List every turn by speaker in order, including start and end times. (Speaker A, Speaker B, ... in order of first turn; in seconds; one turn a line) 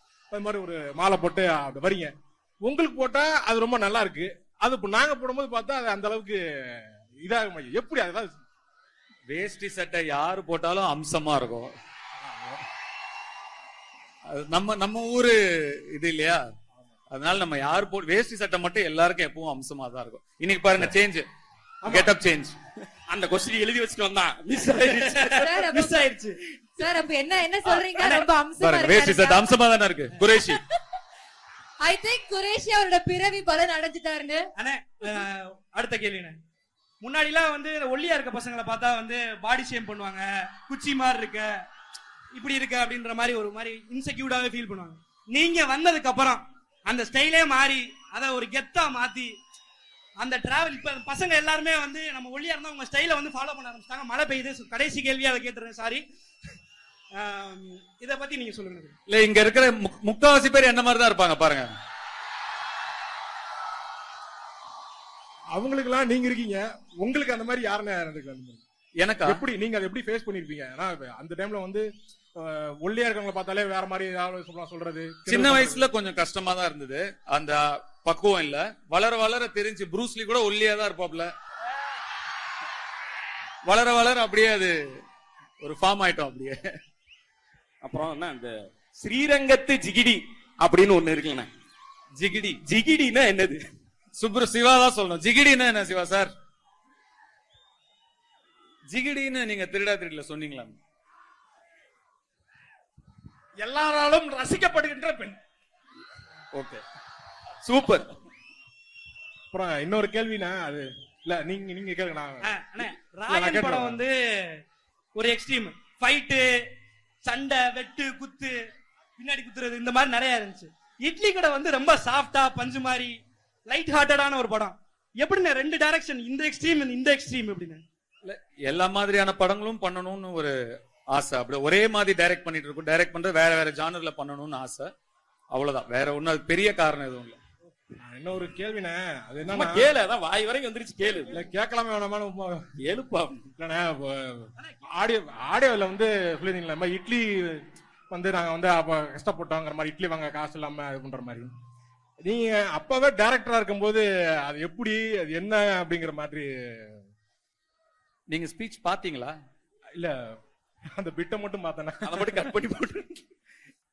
Speaker A: 0.3-8.3
Speaker B: 9.3-11.7
Speaker A: 12.2-12.6
Speaker B: 14.3-15.3
Speaker B: 15.9-16.4
Speaker B: 17.1-21.3
Speaker A: 21.8-22.1
Speaker B: 21.9-22.6
Speaker C: 23.1-25.6
Speaker D: 24.7-26.9
Speaker E: 25.4-26.1
Speaker E: 26.8-29.5
Speaker D: 27.7-28.3
Speaker B: 28.6-30.6
Speaker E: 31.8-34.5
Speaker D: 34.5-36.4
Speaker D: 37.0-41.7
Speaker D: 42.3-49.4
Speaker D: 50.2-56.6
Speaker D: 57.1-59.0
Speaker B: 59.1-61.7
Speaker A: 65.5-68.6
Speaker B: 69.0-69.4
Speaker A: 69.2-75.8
Speaker B: 75.3-81.3
Speaker B: 83.7-84.7
Speaker B: 85.6-86.6
Speaker C: 87.8-91.5
Speaker B: 92.2-92.6
Speaker C: 92.7-93.6
Speaker B: 94.2-96.3
Speaker B: 98.9-100.7
Speaker A: 103.6-105.3
Speaker B: 106.5-106.8
Speaker B: 107.7-108.0
Speaker A: 109.5-112.5
Speaker D: 112.5-114.6
Speaker A: 113.3-114.0
Speaker D: 115.1-127.8
Speaker B: 128.2-130.5
Speaker B: 131.1-134.9
Speaker B: 135.5-137.4
Speaker A: 138.0-139.9
Speaker C: 139.5-141.3
Speaker A: 141.3-142.6
Speaker C: 142.8-143.4
Speaker A: 143.6-151.5
Speaker A: 152.2-157.0
Speaker B: 158.3-159.3
Speaker A: 160.0-160.3
Speaker A: 160.9-162.5
Speaker C: 162.1-163.2